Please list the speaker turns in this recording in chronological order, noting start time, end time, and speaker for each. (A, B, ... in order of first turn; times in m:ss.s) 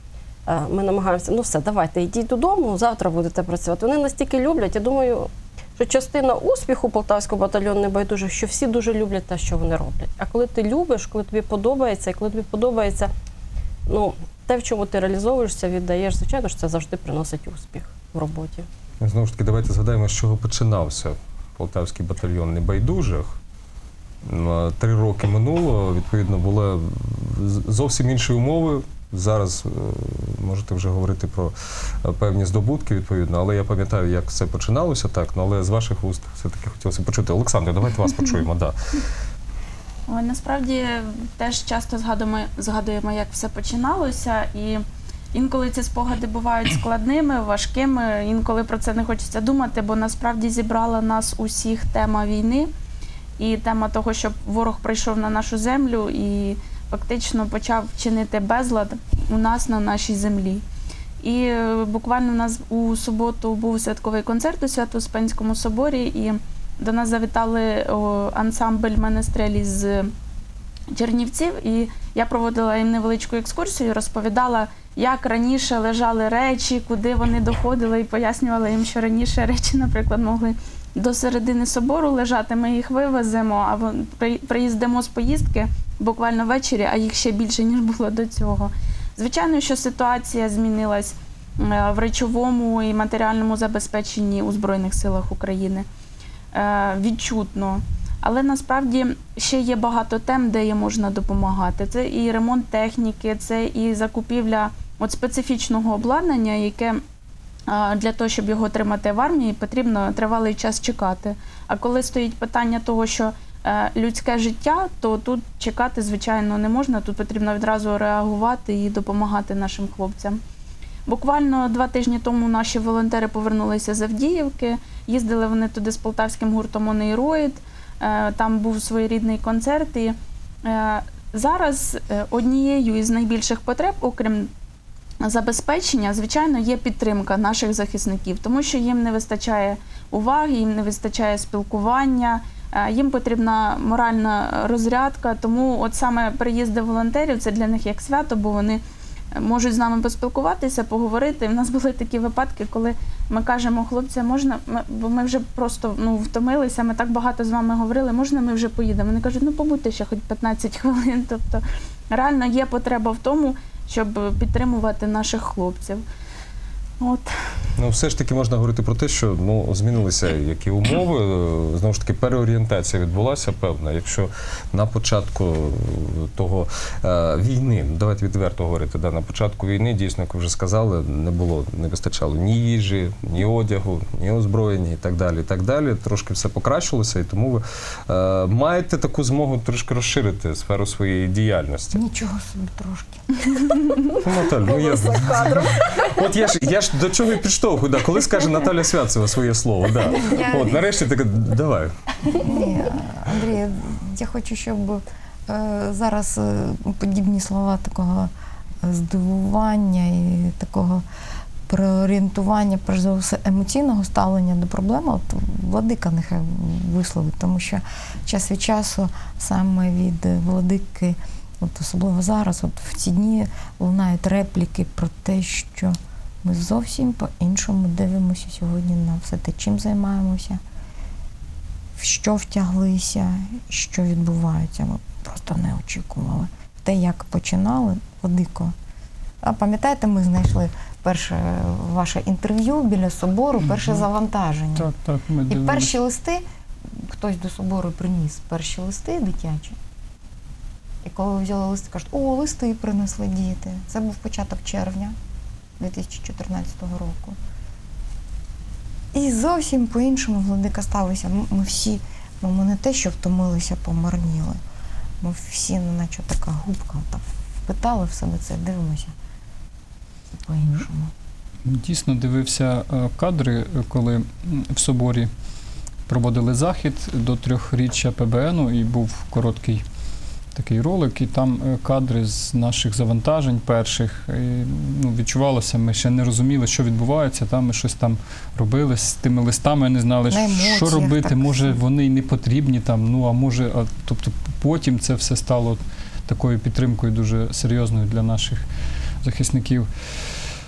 0:00.5-0:13.1 A
0:13.9-0:18.7 A
0:19.0-0:23.4 B
0:24.2-0:38.7 B
0:40.1-0:40.7 C
0:41.4-0:44.7 C
0:45.3-0:52.6 C
0:53.4-0:57.8 C
0:59.3-1:00.5 C
1:01.2-1:02.4 C
1:04.9-1:05.2 C
1:07.2-1:09.8 C
1:11.0-1:11.4 C
1:12.2-1:13.6 C
1:14.2-1:28.6 C
1:29.2-1:31.0 C
1:31.8-1:35.6 C
1:36.6-1:37.2 C
1:38.2-1:38.8 C
1:39.4-1:40.8 C
1:41.4-1:43.9 C
1:45.0-1:46.7 C
1:47.8-2:00.2 C
2:01.1-2:04.5 C
2:05.1-2:07.4 C
2:08.0-2:10.1 C
2:10.8-2:13.9 C
2:15.3-2:22.4 C
2:22.9-2:28.8 C
2:29.4-2:41.5 C
2:42.1-2:46.0 C
2:47.8-3:12.0 B
3:11.9-3:13.4 D
3:14.2-3:21.9 B
3:14.6-3:16.2 A
3:20.1-3:20.9 D
3:22.3-3:28.3 D
3:28.8-3:31.0 D
3:31.7-3:50.6 D
3:52.0-3:58.7 D
3:59.4-4:04.9 D
4:04.7-4:06.0 E
4:05.5-4:06.4 D
4:07.0-4:09.8 D
4:11.0-4:15.1 D
4:15.8-4:17.4 D
4:19.1-4:24.6 D
4:25.2-4:29.1 D
4:30.5-4:31.1 D
4:31.6-4:35.3 E
4:36.1-4:39.8 E
4:40.5-4:58.6 E
4:50.3-4:51.8 D
4:59.2-4:59.9 E